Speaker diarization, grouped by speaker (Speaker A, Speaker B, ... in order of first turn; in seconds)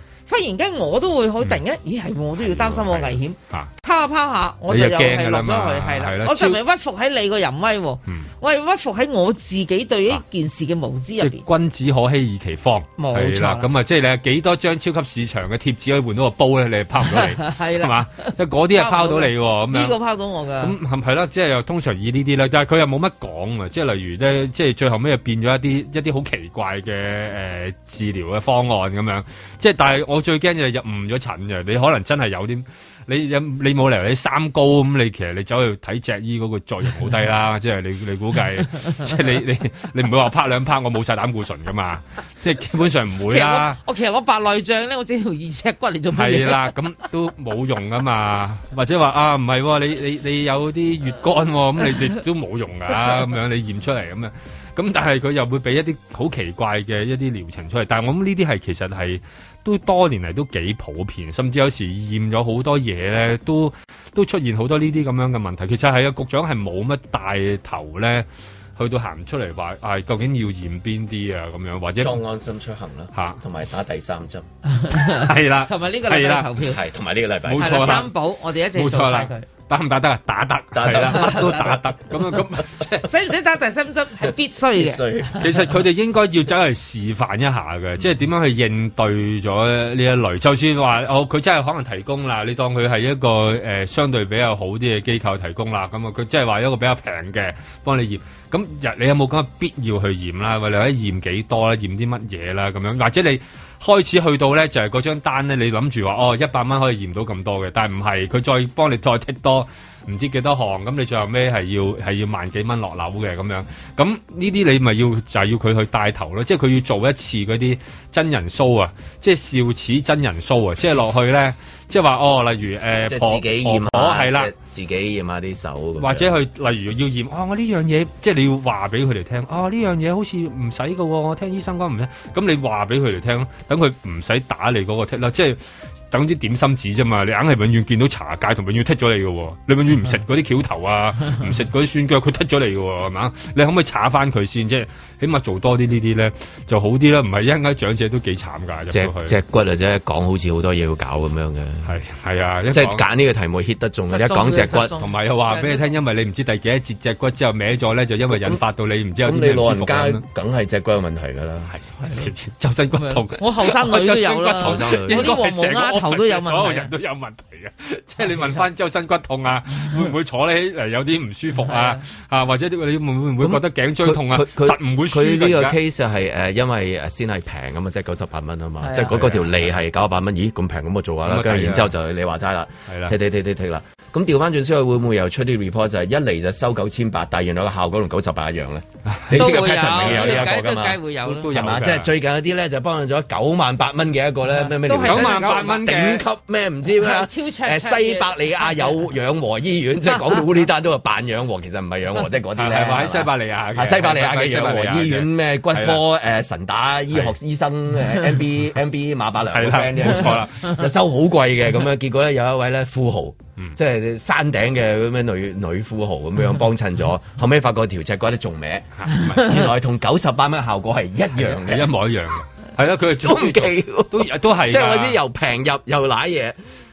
Speaker A: 0.3-11.4, 13.0-13.7, 17.1-20.7, 43.3-46.7, 74.7-76.8, 77.6-79.5, 81.0-81.8, 83.0-85.0, 154.1-155.9, 163.0-166.9, 171.6-172.0, 178.8-179.1, 189.3-191.5, 194.7-195.9, 196.9-199.0
Speaker B: 2.5-3.7, 4.7-6.6, 11.2-20.0, 20.6-43.8, 46.1-72.2, 75.1-76.5, 77.5-78.2, 78.7-83.1, 85.3-124.5, 126.0-135.6, 136.1-149.4, 151.9-153.0, 155.0-160.2, 161.7-175.8, 178.9-179.7, 181.2-181.9, 182.9-183.2, 189.1-190.5, 191.3-192.1, 195.0-196.3, 202.6-206.0, 209.5-210.8, 219.0-219.4, 221.4-225.2
Speaker C: 72.0-74.5, 76.7-78.1, 80.7-81.8, 84.7-85.5, 123.1-126.3, 148.9-152.0, 152.7-154.9, 158.3-158.6, 159.2-161.8, 164.5-165.3, 173.4-191.0, 191.5-222.0, 223.2-226.6